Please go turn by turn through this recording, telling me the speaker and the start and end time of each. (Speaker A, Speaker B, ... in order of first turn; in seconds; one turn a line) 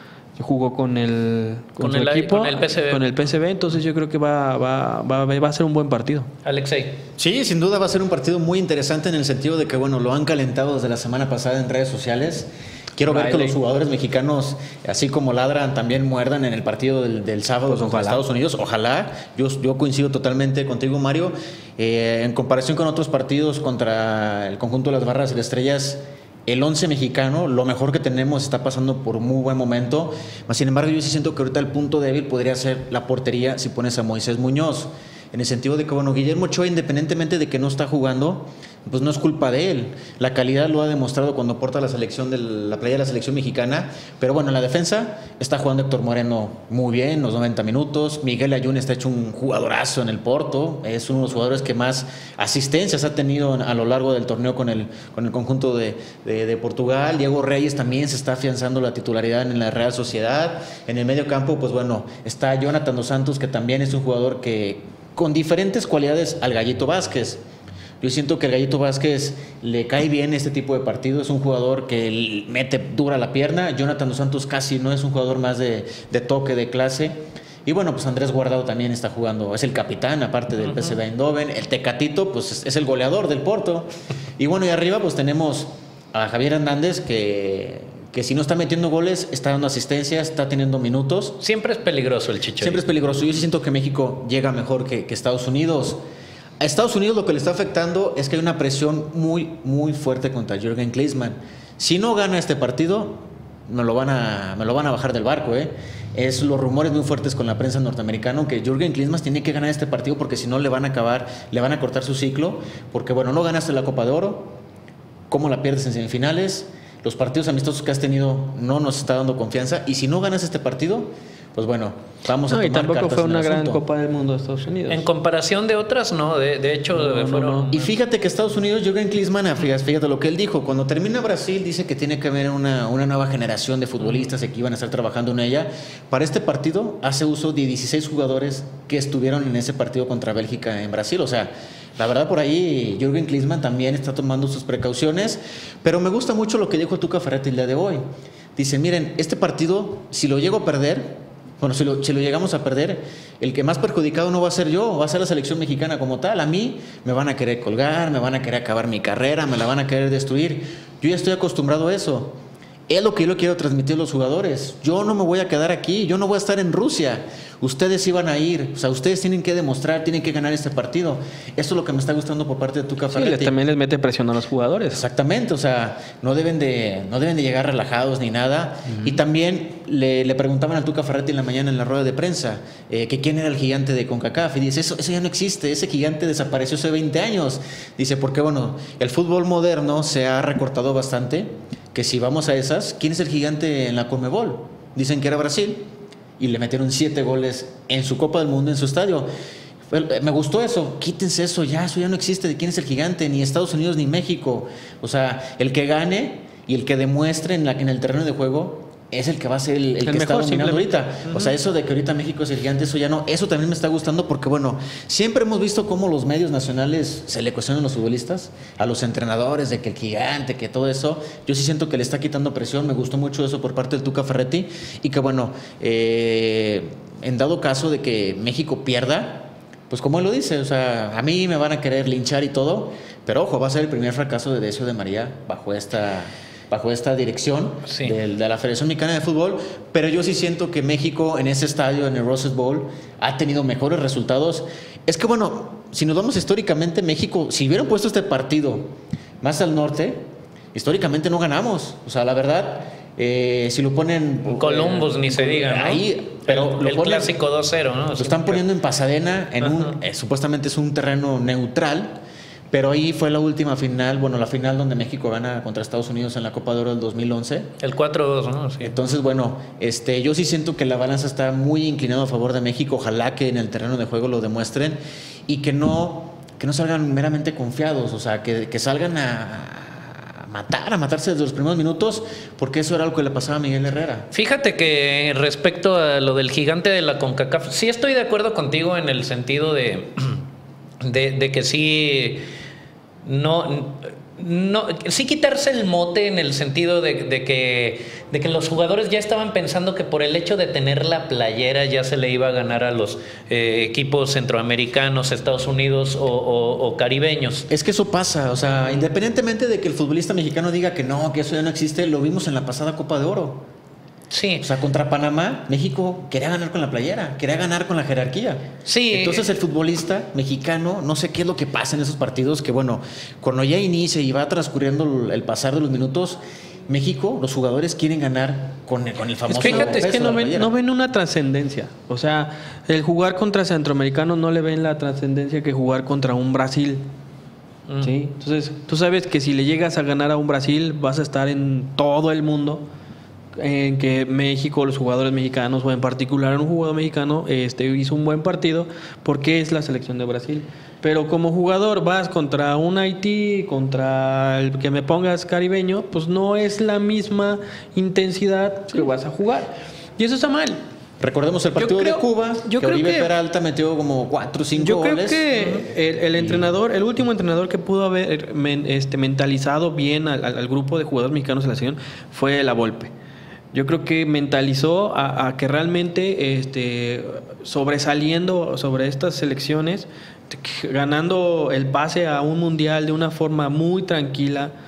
Speaker A: 0.4-6.3
Speaker B: 1.8-3.2
Speaker B: 6.4-7.0
Speaker C: 7.2-67.4
Speaker A: 13.1-13.6
Speaker A: 17.7-18.2
Speaker C: 68.0-91.4
Speaker B: 80.6-81.0
Speaker B: 91.4-92.8
Speaker C: 92.6-96.0
Speaker C: 96.6-114.6
Speaker C: 115.3-123.8
Speaker A: 122.5-125.1
Speaker B: 124.9-127.9
Speaker A: 126.9-127.7
Speaker C: 127.7-148.0
Speaker C: 148.6-173.5
Speaker A: 173.1-175.0
Speaker C: 174.9-195.9
Speaker A: 178.9-179.2
Speaker C: 196.4-199.3
Speaker C: 199.9-250.2
Speaker A: 210.1-211.6
Speaker B: 237.9-238.2
Speaker C: 250.7-257.3
Speaker B: 254.5-258.6
Speaker C: 258.2-262.2
Speaker B: 259.6-260.0
Speaker C: 262.7-267.7
Speaker B: 267.8-269.0
Speaker C: 268.8-284.3
Speaker B: 284.3-290.4
Speaker B: 291.0-292.4
Speaker B: 293.2-307.7
Speaker C: 307.7-313.6
Speaker B: 314.3-314.6
Speaker C: 314.6-330.7
Speaker B: 318.9-319.5
Speaker A: 329.5-337.0
Speaker B: 337.9-338.1
Speaker A: 338.0-342.8
Speaker A: 343.6-360.8
Speaker C: 361.2-365.5
Speaker A: 361.8-363.3
Speaker A: 364.8-373.1
Speaker B: 365.5-365.9
Speaker C: 366.4-366.8
Speaker A: 373.7-384.7